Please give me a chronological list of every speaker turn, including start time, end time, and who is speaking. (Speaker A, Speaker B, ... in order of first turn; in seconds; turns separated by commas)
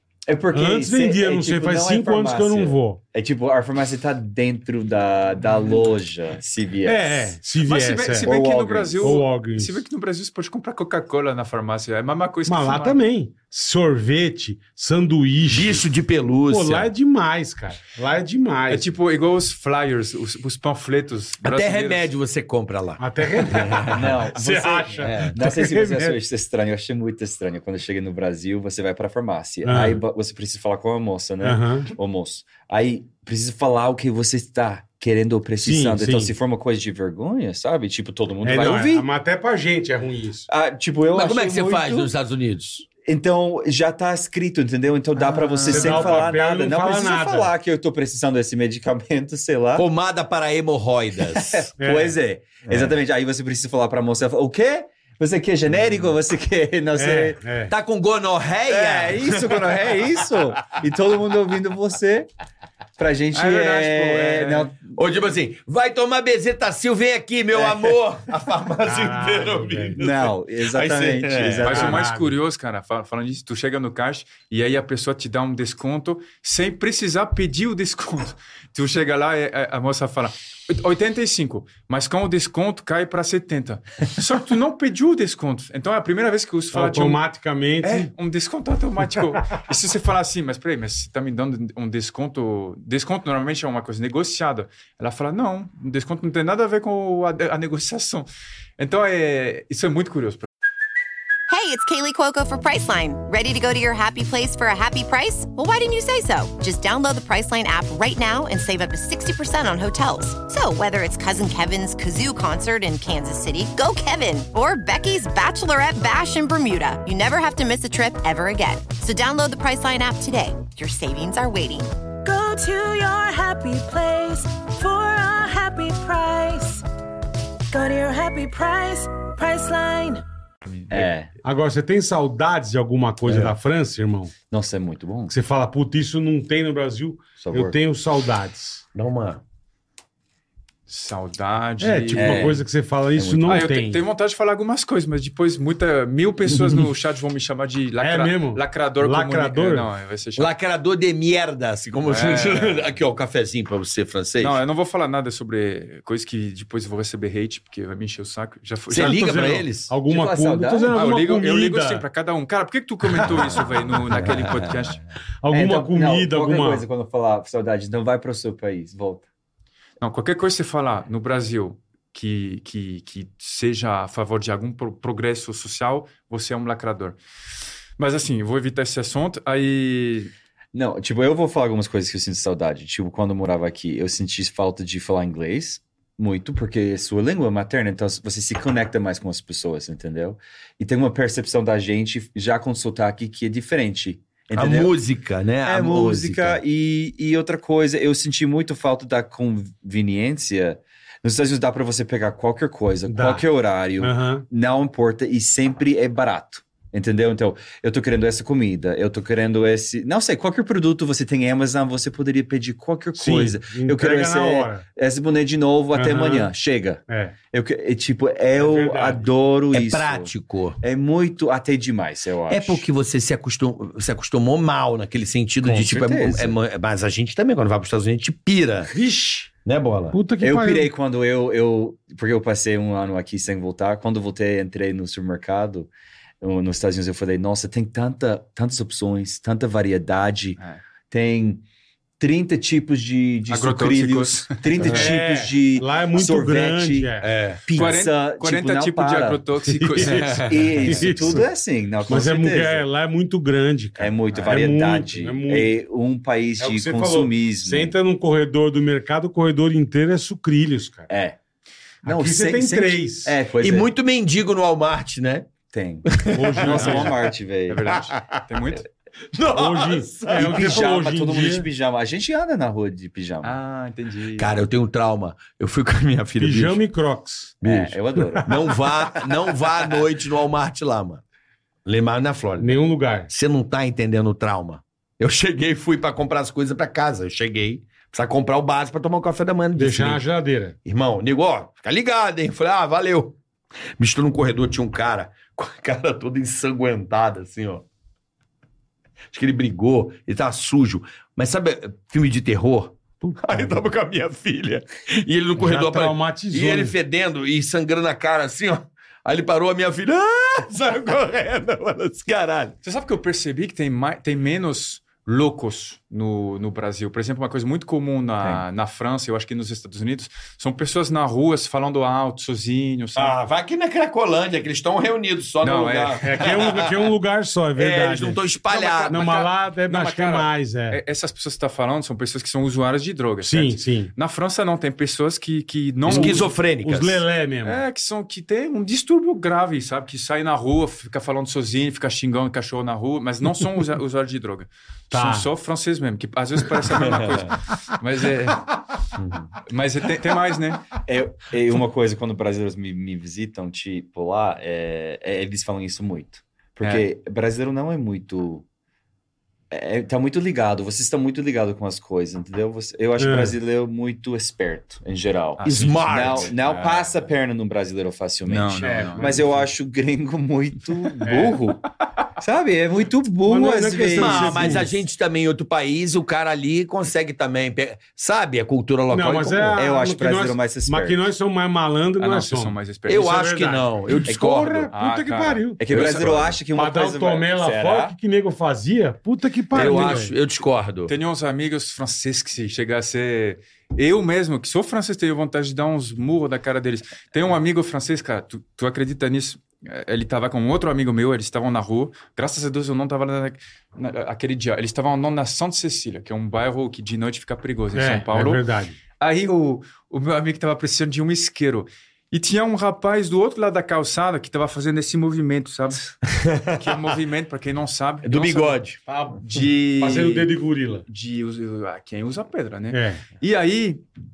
Speaker A: 0.3-7.3, Speaker B: 0.5-3.0, Speaker B: 6.8-8.3, Speaker C: 7.6-13.0, Speaker A: 8.2-9.2, Speaker B: 9.0-9.8, Speaker B: 12.4-15.9, Speaker D: 15.5-16.9, Speaker B: 16.5-18.9, Speaker C: 18.7-22.1, Speaker D: 21.4-24.2, Speaker B: 23.0-26.2, Speaker A: 23.9-39.0, Speaker D: 25.0-25.3, Speaker B: 29.6-30.0, Speaker B: 31.4-31.9, Speaker B: 35.6-36.3, Speaker B: 38.4-40.5, Speaker A: 40.5-42.1, Speaker D: 41.1-42.9, Speaker A: 43.0-49.9, Speaker C: 45.4-45.9, Speaker B: 45.6-47.5, Speaker D: 49.8-51.7, Speaker A: 51.2-57.4, Speaker B: 51.8-52.1, Speaker D: 52.7-52.9, Speaker B: 57.0-57.7, Speaker D: 57.7-60.2, Speaker A: 58.7-62.3, Speaker A: 63.0-65.0, Speaker C: 63.3-64.7, Speaker D: 65.0-71.8, Speaker A: 67.5-67.9, Speaker B: 68.8-70.0, Speaker A: 70.0-72.0, Speaker C: 71.6-87.2, Speaker B: 71.7-72.3, Speaker B: 86.7-88.1, Speaker C: 87.8-100.5, Speaker E: 101.5-121.9, Speaker F: 122.2-126.8, Speaker F: 127.7-130.2, Speaker C: 130.7-131.1, Speaker A: 130.9-131.3, Speaker B: 131.4-134.3, Speaker A: 134.5-135.3, Speaker B: 135.3-138.8, Speaker A: 137.4-137.7, Speaker D: 138.9-139.4, Speaker C: 140.9-142.6, Speaker B: 141.8-144.0, Speaker A: 142.1-143.7, Speaker C: 143.5-150.5, Speaker B: 148.0-149.9, Speaker D: 150.4-154.6, Speaker C: 152.0-152.9, Speaker C: 154.4-159.5, Speaker D: 158.9-159.9, Speaker B: 159.0-162.0, Speaker A: 160.1-161.0, Speaker C: 160.9-165.0, Speaker D: 163.2-164.9, Speaker B: 165.4-166.8, Speaker A: 165.5-169.2, Speaker C: 170.0-177.2, Speaker C: 178.0-180.3, Speaker A: 180.7-194.9, Speaker D: 194.5-196.6, Speaker A: 195.6-222.8, Speaker B: 203.1-203.4, Speaker B: 204.0-204.4, Speaker B: 213.2-214.8, Speaker B: 215.9-216.5, Speaker B: 217.1-217.3, Speaker B: 218.6-219.2, Speaker D: 219.7-220.8, Speaker D: 222.5-228.9, Speaker A: 225.6-226.6, Speaker B: 228.9-229.5, Speaker D: 229.6-230.2, Speaker B: 230.1-230.9, Speaker A: 230.4-240.6, Speaker A: 241.1-241.6, Speaker A: 242.2-247.1, Speaker C: 243.5-245.1, Speaker B: 244.8-247.3, Speaker D: 247.2-247.9, Speaker A: 247.7-249.4, Speaker C: 247.7-251.1, Speaker B: 249.7-251.4, Speaker A: 250.3-252.8, Speaker B: 252.1-255.8, Speaker A: 254.0-257.9, Speaker B: 256.6-261.1, Speaker A: 261.1-261.4, Speaker B: 262.0-263.3, Speaker A: 262.0-263.9, Speaker D: 263.6-265.5, Speaker A: 265.7-267.9, Speaker D: 266.1-267.0, Speaker B: 266.3-267.1, Speaker C: 266.7-267.1, Speaker C: 267.7-268.9, Speaker D: 268.0-268.4, Speaker D: 269.3-270.9, Speaker B: 269.5-271.7, Speaker A: 270.3-273.6, Speaker C: 273.4-274.5, Speaker D: 274.4-276.8, Speaker B: 276.4-277.6, Speaker D: 277.6-281.2, Speaker A: 277.6-278.8, Speaker D: 281.8-290.2, Speaker B: 282.6-283.3, Speaker B: 289.8-290.8, Speaker D: 290.8-293.4, Speaker D: 294.0-297.9, Speaker D: 299.3-312.8, Speaker B: 303.2-303.8, Speaker B: 305.6-306.9, Speaker C: 312.8-323.4, Speaker D: 323.1-327.1, Speaker C: 325.6-326.5, Speaker B: 326.2-328.4, Speaker D: 327.7-329.2, Speaker C: 328.7-336.5, Speaker B: 329.1-331.0, Speaker B: 333.4-334.1, Speaker D: 336.1-337.2, Speaker B: 336.1-337.8, Speaker C: 337.6-348.8, Speaker B: 345.1-345.5, Speaker D: 347.1-347.5, Speaker D: 349.2-349.5, Speaker C: 349.6-350.9, Speaker A: 351.0-358.6, Speaker A: 359.7-371.8, Speaker B: 363.2-363.5, Speaker C: 365.6-367.3, Speaker D: 365.6-366.5, Speaker C: 368.5-369.6, Speaker B: 368.8-369.6, Speaker B: 371.2-371.6, Speaker A: 372.4-374.8, Speaker B: 373.5-374.9, Speaker D: 374.1-379.8, Speaker B: 379.1-385.8, Speaker A: 379.7-381.2, Speaker C: 382.2-383.6, Speaker D: 383.1-384.9, Speaker A: 384.3-384.7, Speaker C: 384.9-386.6, Speaker A: 385.8-388.1, Speaker B: 386.7-390.3, Speaker D: 389.7-391.1, Speaker C: 389.8-390.2, Speaker C: 391.1-408.6, Speaker B: 407.9-409.0, Speaker C: 409.2-416.1, Speaker D: 416.2-416.9, Speaker C: 416.7-418.8, Speaker D: 418.2-419.0, Speaker B: 419.1-419.4, Speaker C: 419.4-420.5, Speaker B: 420.0-421.0, Speaker C: 421.1-424.0, Speaker B: 422.9-423.2